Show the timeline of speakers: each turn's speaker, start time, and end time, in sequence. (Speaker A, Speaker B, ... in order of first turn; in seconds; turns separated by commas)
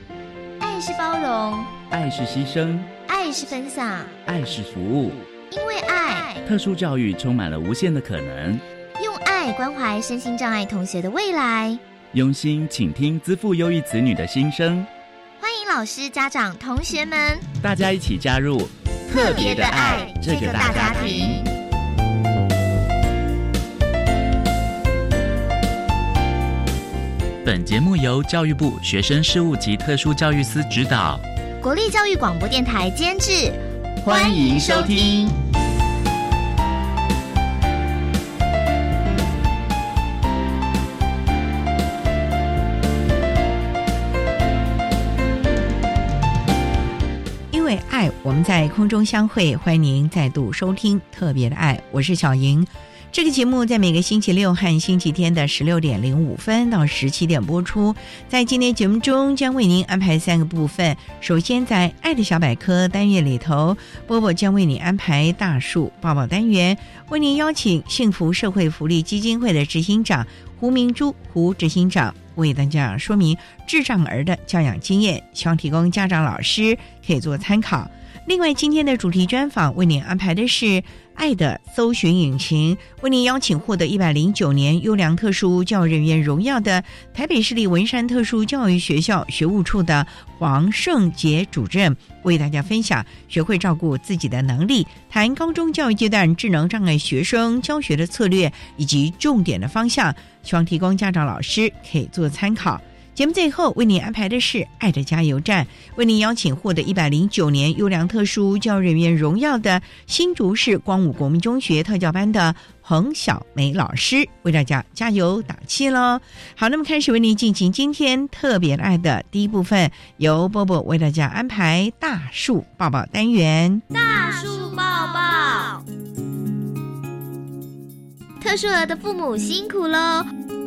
Speaker A: 0.6-1.7, Speaker B: 1.9-2.9, Speaker A: 3.1-4.2, Speaker B: 4.3-5.2, Speaker A: 5.5-6.4, Speaker B: 6.4-8.6, Speaker A: 9.0-11.8, Speaker B: 12.1-14.9, Speaker A: 15.4-17.5, Speaker B: 17.6-21.4, Speaker A: 19.1-21.4, Speaker B: 27.4-31.2, Speaker A: 31.6-35.4, Speaker B: 34.1-35.0, Speaker C: 47.5-123.8, Speaker A: 123.9-125.8, Speaker A: 128.4-130.3